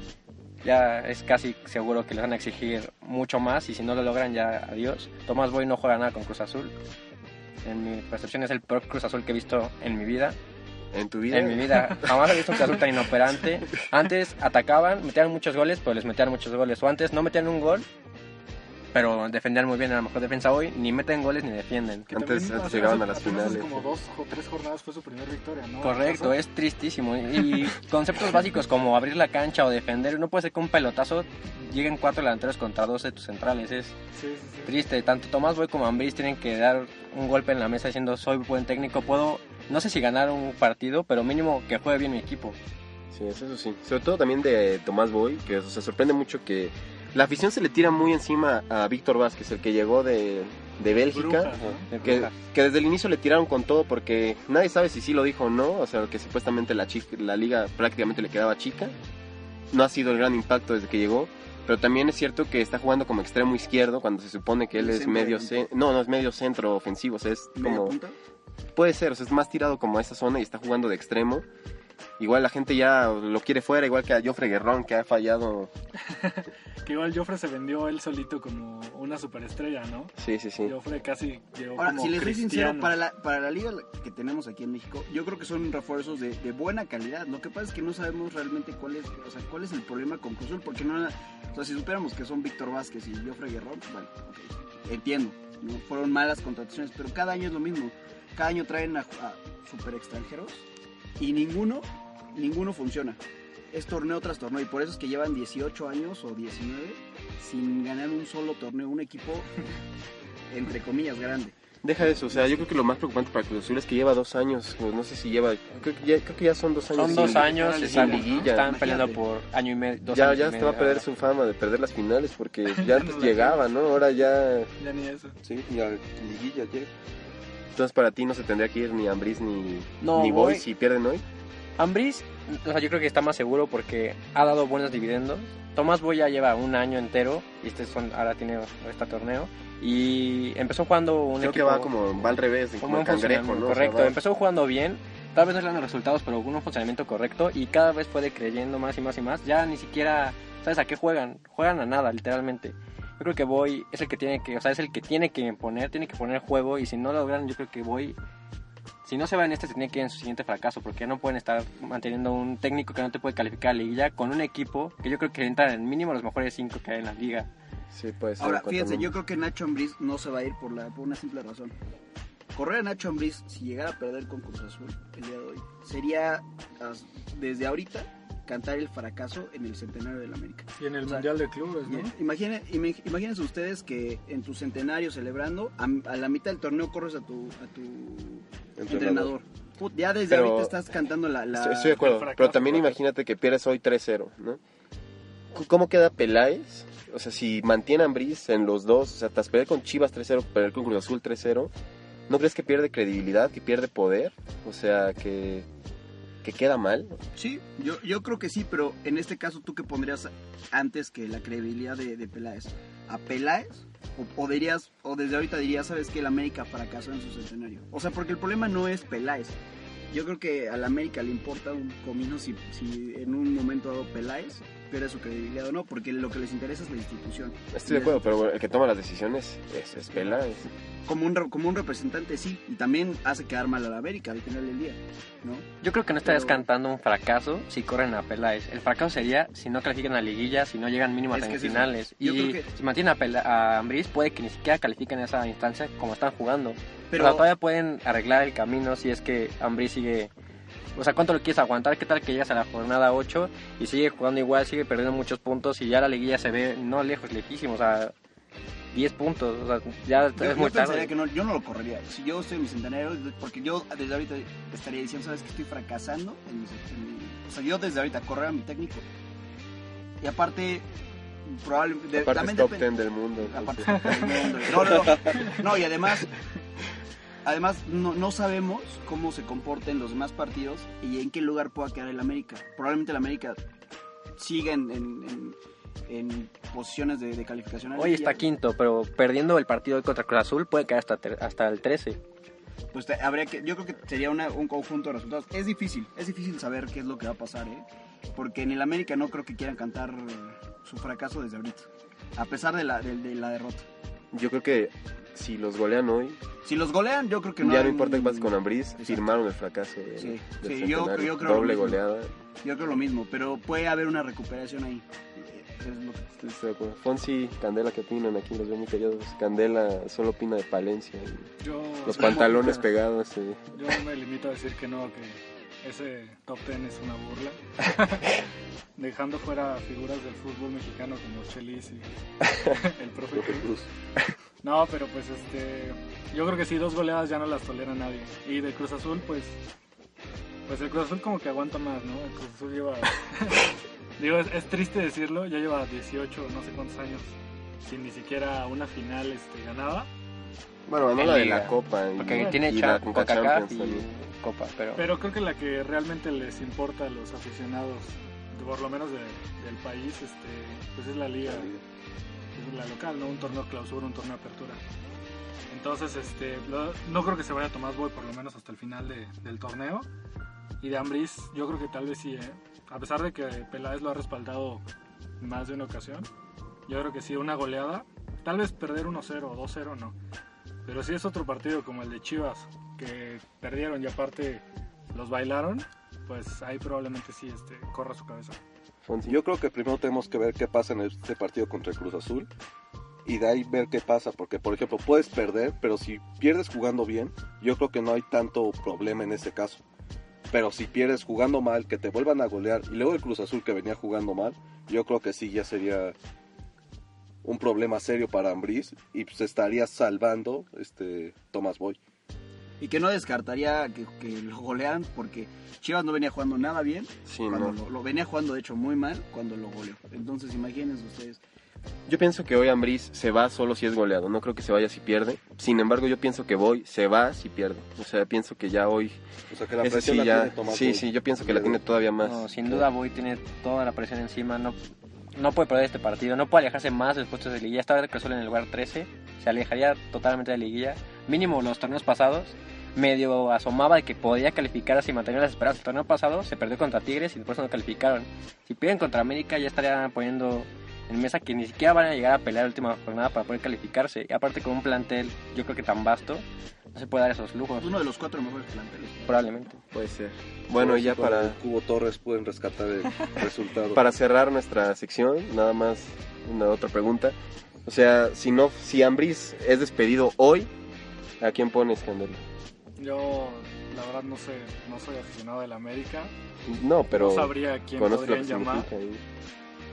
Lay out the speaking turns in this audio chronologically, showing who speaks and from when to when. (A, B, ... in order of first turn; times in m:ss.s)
0:00.6-0:06.7 A
0:07.6-0:10.4 A
0:10.9-0:12.1 B
0:11.3-0:17.9 A
0:18.9-0:22.1 A
0:22.1-0:23.9 B
0:22.1-0:26.4 C
0:25.8-0:33.9 A
0:34.1-0:34.7 C
0:34.6-0:42.6 A
0:43.1-0:58.9 B
0:51.0-0:51.9 C
0:51.9-0:52.3 A
0:59.7-1:08.0 B
1:04.7-1:05.6 D
1:07.6-1:08.1 D
1:08.7-1:11.5 B
1:12.2-1:15.7 B
1:16.1-1:20.1 C
1:20.2-1:20.7 B
1:20.6-1:22.9 C
1:21.8-1:40.6 D
1:41.2-1:43.2 D
1:43.7-1:49.5 D
1:50.5-1:51.5 D
1:51.8-1:58.6 B
1:56.9-2:01.0 A
1:57.0-1:58.5 C
1:58.5-1:59.2 D
2:00.1-2:04.7 B
2:02.7-2:03.7 C
2:04.8-2:05.4 C
2:05.4-2:06.9 E
2:07.7-2:11.2 B
2:10.0-2:10.6 A
2:11.8-2:38.2 A
2:21.4-2:24.2 B
2:39.0-2:47.5 A
2:47.9-2:49.1 B
2:48.4-2:51.7 D
2:52.5-3:01.3 D
3:00.8-3:02.1 C
3:01.8-3:12.0 D
3:08.8-3:09.3 E
3:10.3-3:10.7 B
3:11.5-3:14.6 B
3:11.9-3:13.0 C
3:15.5-3:21.7 B
3:22.3-3:25.7 B
3:26.4-3:27.2 B
3:27.4-3:39.6 D
3:40.1-3:48.4 D
3:47.7-3:50.7 B
3:51.0-3:55.6 D
3:55.8-4:10.3 A
3:56.2-3:56.6 D
4:01.3-4:02.7 D
4:07.1-4:07.4 D
4:11.0-4:18.1 A
4:18.9-4:21.1 A
4:20.4-4:29.0 D
4:30.2-4:30.8 D
4:31.4-4:32.9 D
4:32.1-4:34.2 B
4:33.4-4:36.3 D
4:33.9-4:34.7 C
4:37.4-4:43.6 D
4:44.4-4:45.6 D
4:46.1-4:48.4 D
4:48.0-4:52.2 A
4:52.9-5:03.8 D
5:04.3-5:06.4 B
5:06.6-5:09.3 D
5:07.6-5:12.3 B
5:10.2-5:12.0 D
5:12.6-5:16.3 D
5:16.4-5:21.5 B
5:21.6-5:22.9 C
5:22.0-5:23.6 B
5:23.7-5:28.3 C
5:29.0-5:32.1 C
5:32.6-5:33.7 C
5:33.3-5:33.9 E
5:34.6-5:39.6 C
5:40.7-5:50.1 C
5:50.9-5:54.0 B
5:51.2-5:55.0 A
5:55.0-6:01.7 C
6:01.4-6:01.8 E
6:02.5-6:04.8 C
6:05.7-6:10.1 C
6:10.8-6:14.8 C
6:15.4-6:16.3 C
6:16.9-6:20.2 C
6:20.8-6:28.6 C
6:29.0-6:29.4 B
6:29.3-6:32.5 E
6:33.2-6:39.8 E
6:40.5-6:46.2 E
6:47.4-6:52.0 E
6:52.8-7:01.4 D
6:57.2-6:57.8 B
7:02.1-7:09.2 B
7:09.5-7:11.8 E
7:09.8-7:12.8 B
7:12.2-7:14.8 A
7:15.4-7:37.9 A
7:37.8-7:39.5 D
7:39.2-7:39.8 A
7:39.9-7:41.6 B
7:40.8-7:44.0 E
7:43.9-7:50.7 B
7:51.4-7:52.4 B
7:53.0-7:56.3 C
7:56.6-7:59.2 B
7:57.1-7:58.9 C